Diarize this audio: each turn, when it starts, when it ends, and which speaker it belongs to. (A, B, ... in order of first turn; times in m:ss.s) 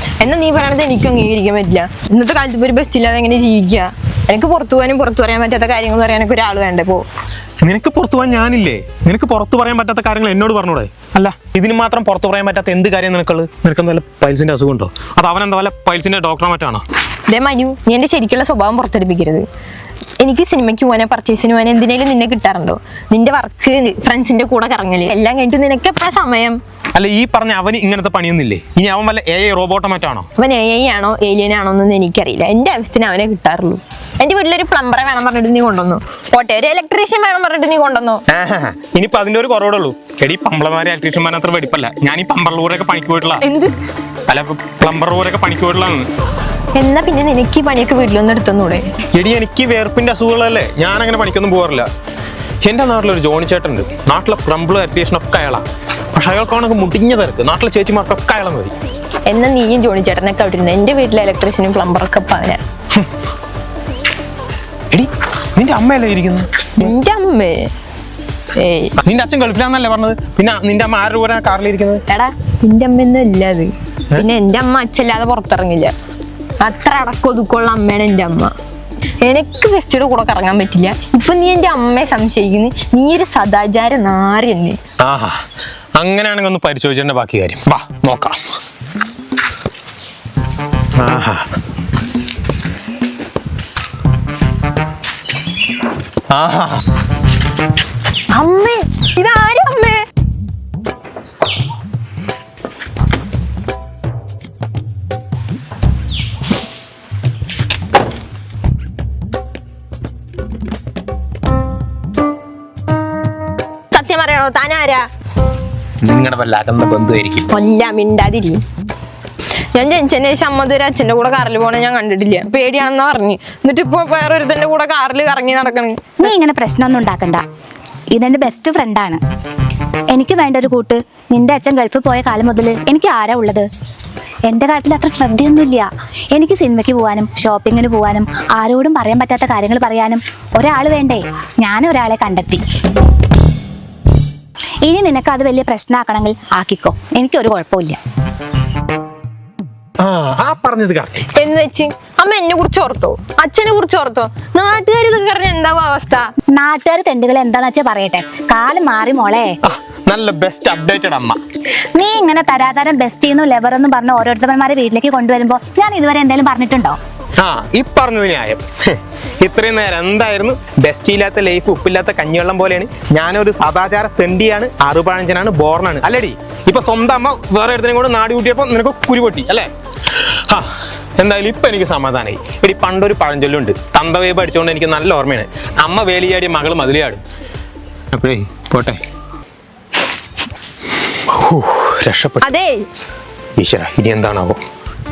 0:00.2-0:07.0 A
0:07.6-0:16.8 B
0:17.3-0:19.5 A
0:20.2-0:26.6 A
0:26.9-0:30.3 B
0:30.4-0:38.2 A
0:38.3-0:43.4 B
0:43.4-0:43.8 A
0:44.3-0:46.1 B
0:46.7-0:48.9 A
0:49.1-0:51.9 B
0:52.6-0:58.7 B
0:59.2-1:02.6 A
1:04.9-1:06.7 B
1:06.8-1:07.7 A
1:08.5-1:09.0 A
1:09.0-1:12.0 B
1:12.1-1:15.9 A
1:16.6-1:18.5 A
1:19.2-1:24.8 A
1:25.0-1:25.4 B
1:26.0-1:28.4 B
1:31.0-1:31.5 B
1:36.3-1:36.8 B
1:38.3-1:40.0 A
1:53.9-1:55.1 A
1:56.0-1:57.5 B
1:57.5-1:58.6 A
1:59.7-2:06.2 A
2:06.2-2:07.4 C
2:08.1-2:09.2 C
2:10.1-2:13.7 C
2:14.5-2:22.6 C
2:24.8-2:28.0 C
2:30.0-2:31.3 B
2:31.3-2:36.3 A
2:36.5-2:39.6 C
2:39.6-2:41.4 B
2:41.9-2:47.0 C
2:47.4-3:07.2 B
3:08.1-3:09.0 B
3:11.2-3:12.5 B
3:12.4-3:12.8 A
3:13.6-3:14.6 B